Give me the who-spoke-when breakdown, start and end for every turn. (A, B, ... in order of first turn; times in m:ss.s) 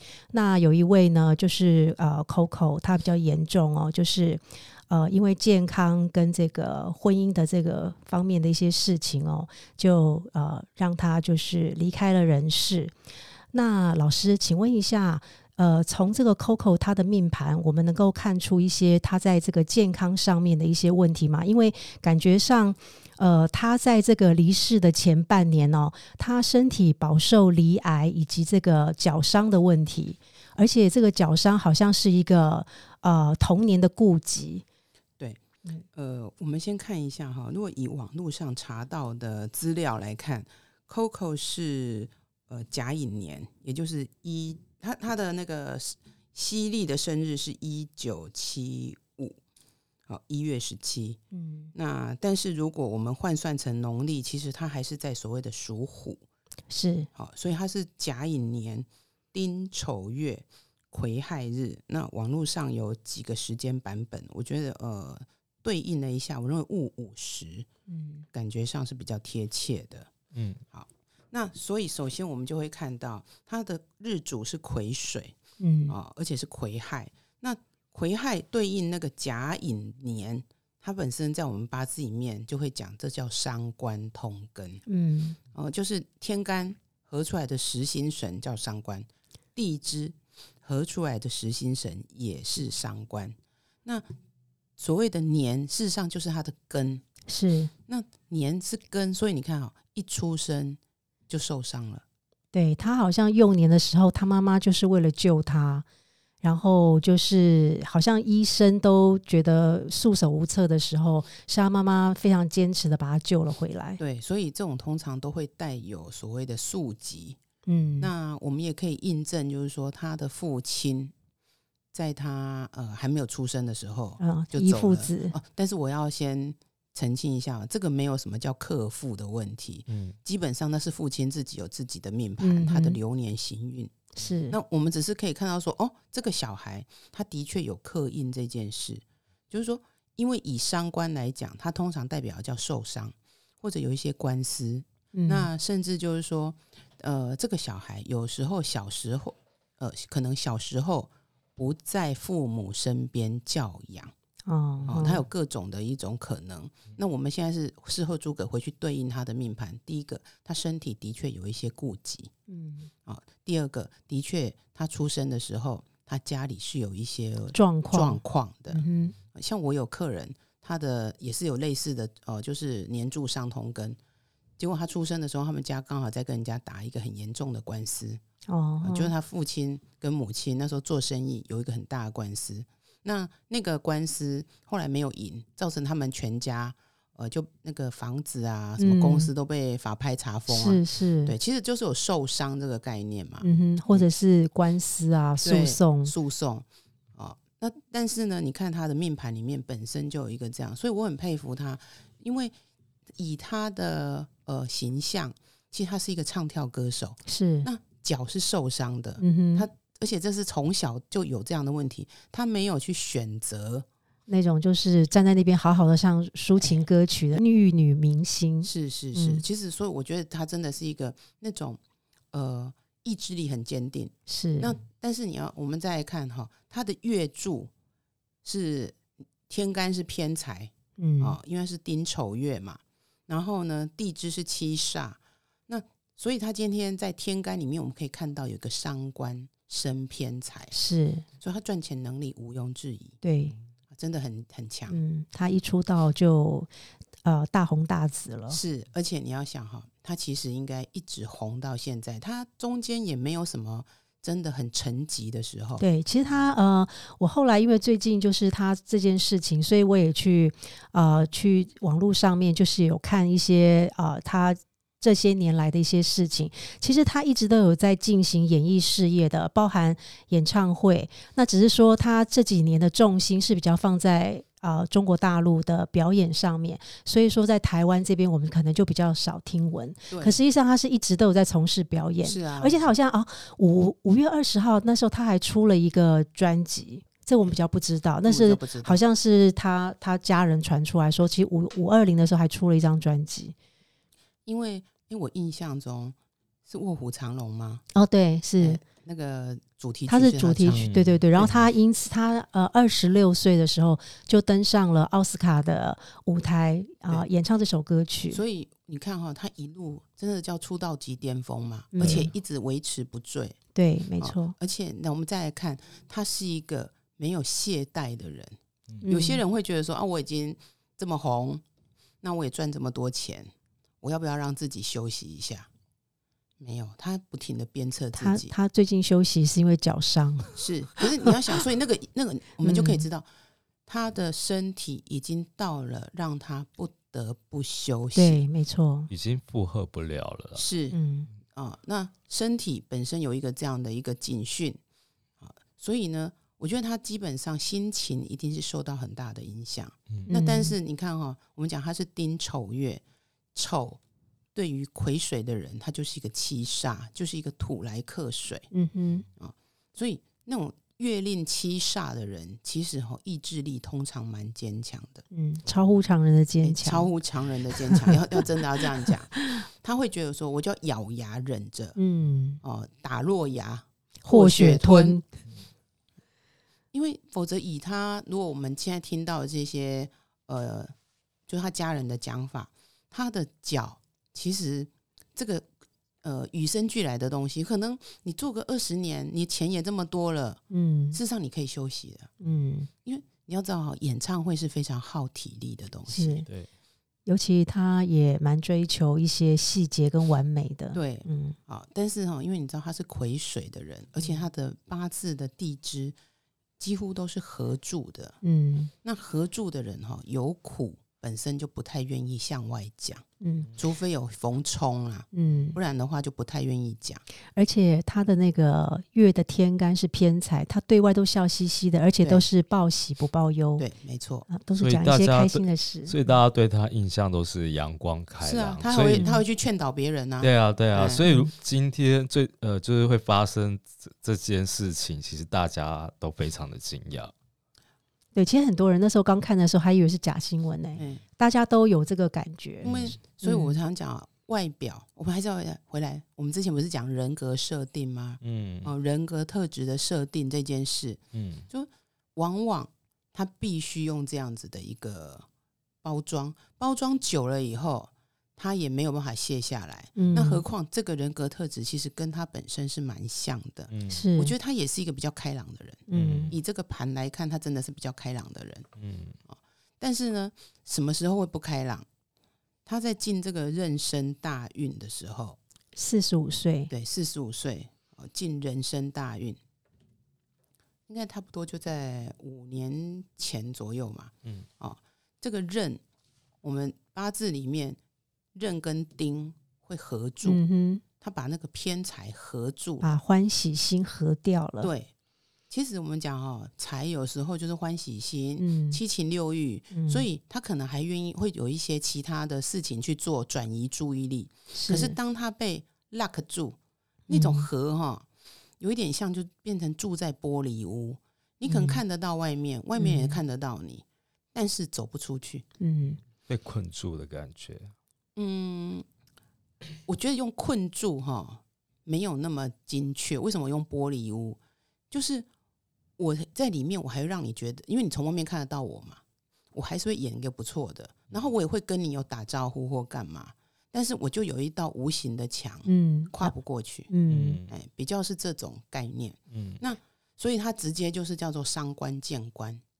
0:00.3-0:12.9 A
0:13.5-0:34.6 A
0:35.9-0:49.4 B
0:50.1-0:51.2 B
0:51.3-0:51.7 A
0:51.7-0:56.2 B
0:56.7-0:57.1 A
0:57.1-1:07.7 B
1:07.9-1:08.2 A
1:08.3-1:10.1 B
1:10.3-1:10.6 C
1:10.7-1:15.4 B
1:15.6-1:15.9 A
1:15.9-1:24.8 B
1:24.9-1:25.4 A
1:25.5-1:34.0 B
1:34.8-1:37.0 B
1:37.3-1:37.7 A
1:37.9-1:42.0 B
1:42.5-1:45.8 A
1:46.4-1:54.0 A
1:54.0-1:57.4 B
1:57.6-1:58.1 A
1:58.0-2:01.1 B
2:01.9-2:14.0 B
2:04.2-2:05.4 A
2:09.9-2:10.2 C
2:12.4-2:13.0 A
2:14.2-2:14.6 A
2:14.5-2:34.1 B
2:25.1-2:25.5 A
2:34.4-2:35.2 A
2:34.8-2:42.3 B
2:42.5-2:42.9 A
2:43.0-2:54.0 B
2:47.5-2:49.1 A
2:54.6-2:58.2 B
2:58.5-2:59.1 A
2:58.8-3:14.0 B
3:08.8-3:09.3 A
3:10.5-3:11.3 A
3:13.4-3:16.1 A
3:15.4-3:22.5 B
3:23.2-3:33.8 B
3:27.2-3:27.7 A
3:29.2-3:29.7 A
3:34.3-3:39.4 A
3:38.6-3:41.8 B
3:42.3-3:47.7 B
3:44.3-3:44.8 A
3:48.4-4:00.7 B
3:51.0-3:51.4 A
4:00.7-4:01.2 A
4:01.4-4:03.2 B
4:03.2-4:03.5 A
4:03.9-4:05.0 B
4:04.9-4:06.7 A
4:07.2-4:08.6 A
4:08.5-4:15.8 B
4:15.8-4:53.5 A
4:40.1-4:40.4 B
4:42.2-4:42.9 B
4:48.2-4:49.0 B
4:54.4-4:56.2 B
4:56.7-4:57.8 B
4:57.9-4:58.8 A
4:58.6-5:01.7 B
5:00.1-5:08.4 A
5:00.7-5:01.2 C
5:08.3-5:13.6 B
5:11.9-5:12.3 A
5:12.0-5:12.2 C
5:13.7-5:14.5 A
5:14.2-5:21.6 B
5:19.0-5:19.4 A
5:22.2-5:25.7 B
5:26.6-5:28.5 B
5:28.1-5:31.0 A
5:30.6-5:33.3 B
5:32.6-5:33.0 A
5:33.8-5:38.4 B
5:38.1-5:39.1 A
5:39.1-5:40.6 C
5:40.6-5:41.0 B
5:40.9-5:41.3 A
5:41.5-5:44.8 B
5:45.4-5:53.0 B
5:50.3-5:50.7 A
5:53.5-5:54.0 B
5:54.5-5:58.7 B
5:58.7-5:59.2 A
5:59.4-6:05.2 B
6:05.3-6:07.1 A
6:06.6-6:12.0 B
6:07.9-6:08.5 A
6:09.3-6:09.6 A
6:12.0-6:12.6 A
6:12.6-6:15.2 B
6:14.2-6:15.2 A
6:16.9-6:20.9 B
6:21.5-6:25.7 B
6:26.2-6:30.6 B
6:30.7-6:31.2 A
6:31.1-6:32.3 B
6:32.4-6:32.9 A
6:33.0-6:36.5 B
6:36.1-6:36.5 A
6:37.2-6:41.6 A
6:40.9-6:46.2 B
6:46.8-6:48.4 B
6:48.4-6:48.9 A
6:49.0-6:53.2 B
6:53.4-6:53.7 A
6:53.7-6:57.2 B
6:55.3-6:55.8 A
6:57.6-7:03.8 A
7:03.8-7:04.5 B
7:04.5-7:06.3 A
7:04.8-7:09.2 C
7:08.4-7:11.2 B
7:09.2-7:09.4 A
7:10.4-7:17.3 C
7:11.2-7:11.5 A
7:18.3-7:23.8 A
7:21.0-7:21.2 B
7:22.8-7:35.5 B
7:22.8-7:23.1 C
7:28.4-7:28.9 C
7:31.3-7:31.6 C
7:36.0-7:48.9 B
7:40.2-7:40.6 A
7:43.9-7:44.2 C
7:44.1-7:44.5 A
7:46.1-7:46.5 A
7:46.1-7:46.6 C
7:49.0-7:49.4 C
7:49.5-7:52.0 B
7:52.8-7:55.6 B
7:55.9-7:56.9 A
7:56.9-7:59.6 B
8:01.1-8:06.0 B
8:06.6-8:08.0 B
8:08.5-8:10.6 B
8:10.4-8:11.0 A
8:11.2-8:13.1 B
8:13.0-8:14.9 A
8:14.8-8:15.1 B
8:15.7-8:26.8 B
8:18.6-8:19.0 A
8:19.9-8:20.2 A
8:24.7-8:25.2 A
8:27.3-8:27.7 A
8:27.3-8:28.2 B
8:28.8-8:35.6 B
8:31.6-8:32.0 A
8:33.0-8:33.4 A
8:35.8-8:36.2 A
8:36.5-8:37.9 C
8:38.4-8:39.0 B
8:40.0-8:44.6 B
8:45.1-8:45.5 B
8:46.2-8:49.2 B
8:49.7-8:57.1 B
8:55.8-8:56.5 A
8:57.1-8:57.6 A
8:57.2-8:57.7 C
8:57.7-9:02.8 B
8:59.5-8:59.8 C